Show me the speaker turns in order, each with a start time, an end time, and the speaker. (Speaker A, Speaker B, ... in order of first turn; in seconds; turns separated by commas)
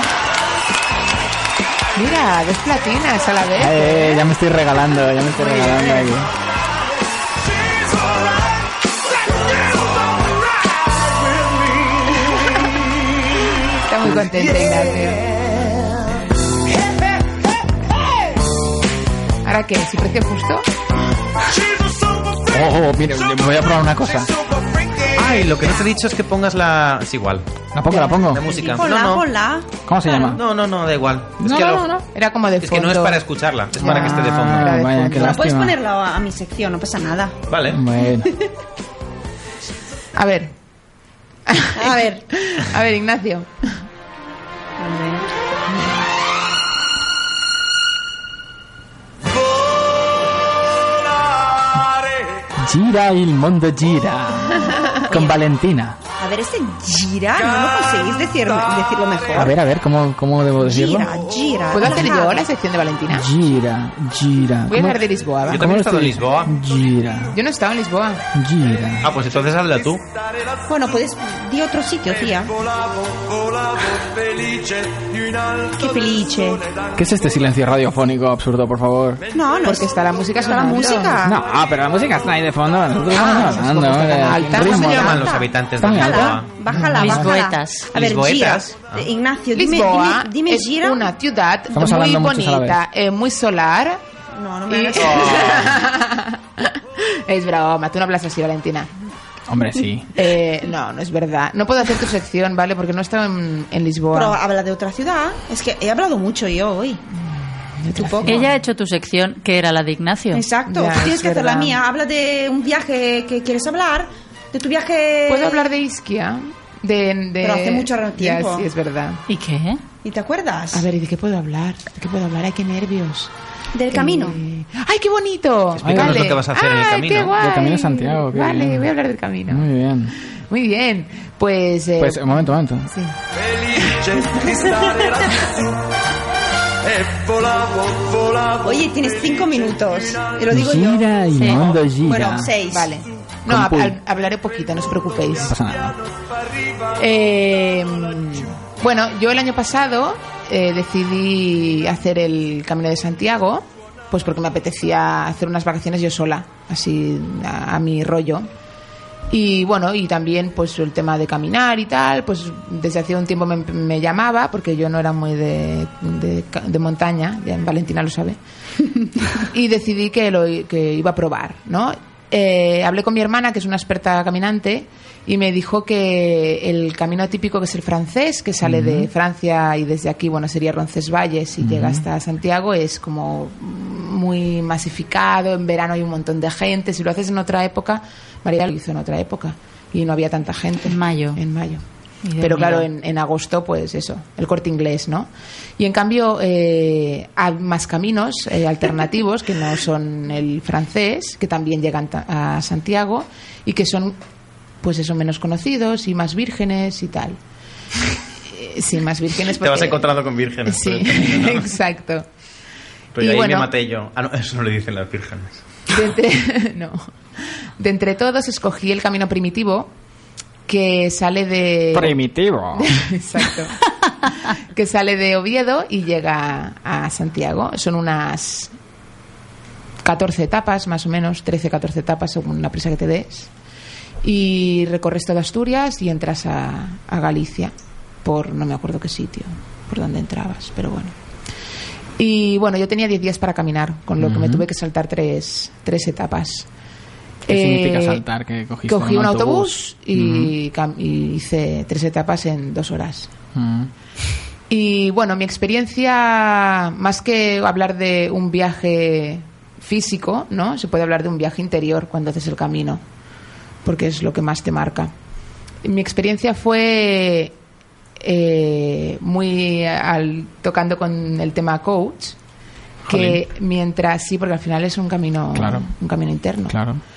Speaker A: 1.9-4.2, Speaker B: 3.5-6.3, Speaker A: 5.4-6.1, Speaker A: 13.7-15.3, Speaker A: 19.4-20.6, Speaker B: 22.4-24.3, Speaker C: 25.1-27.4, Speaker B: 27.7-28.5, Speaker C: 28.1-29.2, Speaker D: 28.6-30.4, Speaker B: 29.9-30.4, Speaker C: 30.4-31.9, Speaker B: 31.4-32.0, Speaker A: 32.1-33.2, Speaker C: 32.6-34.7, Speaker A: 33.8-35.5, Speaker B: 33.8-35.8, Speaker D: 35.2-37.4, Speaker C: 37.5-37.8, Speaker B: 37.7-38.3, Speaker A: 40.1-40.5, Speaker A: 41.5-43.8, Speaker D: 41.8-42.2, Speaker D: 44.8-45.3, Speaker A: 45.7-46.0, Speaker B: 52.6-56.0, Speaker A: 54.7-55.0, Speaker D: 55.1-55.4, Speaker D: 56.2-59.5, Speaker B: 59.3-61.1, Speaker D: 60.6-62.4, Speaker A: 61.7-63.3, Speaker B: 63.1-67.4, Speaker A: 64.7-65.7, Speaker C: 65.5-66.6, Speaker A: 67.3-68.2, Speaker B: 68.3-69.1, Speaker C: 69.0-70.0, Speaker D: 70.7-72.7, Speaker D: 75.6-76.7, Speaker B: 77.0-79.2, Speaker D: 79.3-81.4, Speaker A: 79.6-81.2, Speaker B: 81.2-87.3, Speaker A: 83.1-85.3, Speaker C: 84.5-86.5, Speaker D: 85.0-91.1, Speaker E: 86.9-87.9, Speaker C: 87.9-89.1, Speaker A: 89.5-94.0, Speaker B: 91.7-92.8, Speaker D: 94.3-95.5, Speaker A: 94.7-98.9, Speaker C: 95.0-95.8, Speaker B: 99.5-100.2, Speaker A: 100.1-104.4, Speaker D: 104.1-107.0, Speaker A: 107.8-108.5, Speaker D: 108.0-108.4, Speaker E: 108.2-110.5, Speaker D: 110.3-115.7, Speaker A: 110.7-111.8, Speaker A: 115.3-119.2, Speaker D: 117.4-118.7, Speaker E: 119.3-119.8, Speaker D: 120.0-120.9, Speaker A: 120.7-123.3, Speaker D: 123.7-124.4, Speaker A: 123.9-129.7, Speaker C: 125.7-127.3, Speaker B: 125.8-126.3, Speaker B: 127.4-128.9, Speaker B: 129.5-130.2, Speaker A: 130.4-133.2, Speaker B: 132.0-132.9, Speaker A: 133.8-134.4, Speaker D: 138.4-142.9, Speaker B: 140.5-142.5, Speaker E: 141.3-141.6, Speaker A: 142.7-145.5, Speaker B: 143.5-144.0, Speaker B: 145.4-146.0, Speaker A: 146.9-158.5, Speaker A: 159.3-168.4, Speaker A: 169.4-191.8, Speaker B: 178.6-179.1, Speaker B: 181.6-182.0, Speaker E: 190.9-191.4, Speaker E: 192.2-192.9, Speaker A: 192.4-204.2, Speaker A: 204.8-207.4, Speaker A: 208.4-210.1, Speaker C: 209.6-211.7, Speaker A: 210.7-212.2, Speaker C: 213.1-215.6, Speaker A: 213.2-213.7, Speaker A: 215.9-219.9, Speaker A: 220.7-222.2, Speaker B: 221.9-223.1, Speaker A: 222.7-228.7, Speaker A: 230.0-233.5, Speaker A: 234.2-241.1, Speaker A: 242.2-246.7, Speaker B: 244.2-244.7, Speaker A: 247.4-248.2, Speaker B: 247.5-250.5, Speaker A: 248.9-253.3, Speaker B: 253.5-253.9, Speaker A: 254.7-263.0, Speaker A: 263.8-265.1, Speaker A: 265.8-267.5, Speaker A: 268.2-272.4, Speaker B: 273.1-273.4, Speaker A: 273.1-276.8, Speaker B: 275.5-275.9, Speaker B: 276.7-277.0